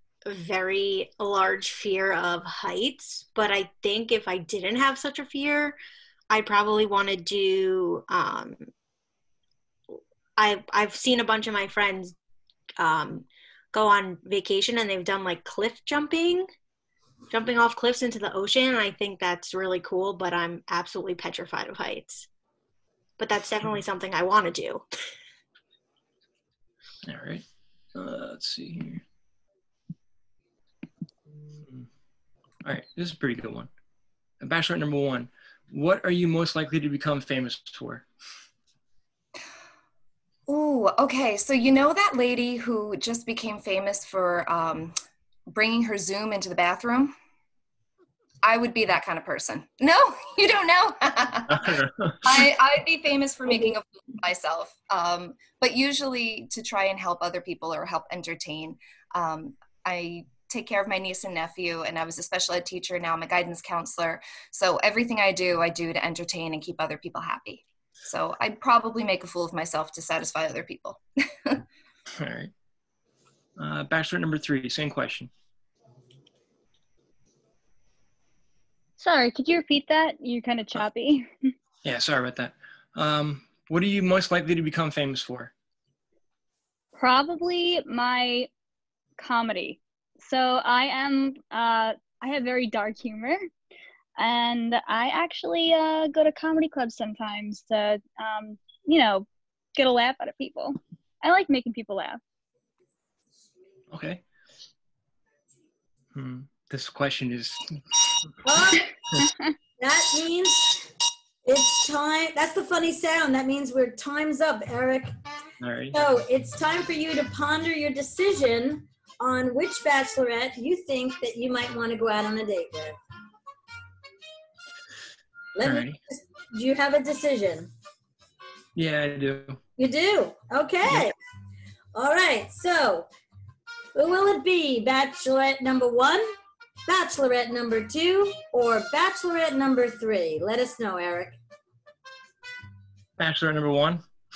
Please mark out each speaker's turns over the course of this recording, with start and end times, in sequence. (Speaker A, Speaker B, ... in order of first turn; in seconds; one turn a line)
Speaker A: 0.3-5.8
Speaker A: 6.3-8.6
Speaker A: 10.4-12.1
Speaker A: 12.8-16.4
Speaker A: 17.3-22.2
Speaker A: 23.2-24.8
Speaker B: 27.0-29.0
Speaker B: 31.6-31.9
Speaker B: 32.6-33.7
Speaker B: 34.4-38.1
Speaker C: 40.5-45.0
Speaker C: 45.5-47.1
Speaker C: 48.4-71.6
Speaker B: 51.5-52.4
Speaker B: 72.2-72.5
Speaker B: 73.6-75.3
Speaker D: 79.0-81.5
Speaker B: 81.8-85.5
Speaker D: 86.9-88.5
Speaker D: 89.2-93.5
Speaker D: 94.2-102.2
Speaker B: 103.9-104.2
Speaker B: 106.1-108.0
Speaker E: 108.4-108.9
Speaker E: 109.8-110.9
Speaker E: 111.5-115.1
Speaker B: 115.6-116.0
Speaker E: 115.9-123.0
Speaker E: 125.5-127.7
Speaker B: 125.6-126.0
Speaker B: 128.8-129.6
Speaker E: 129.8-131.1
Speaker B: 130.8-131.1
Speaker E: 131.9-133.1
Speaker E: 133.9-136.2
Speaker E: 136.9-141.4
Speaker B: 143.2-144.0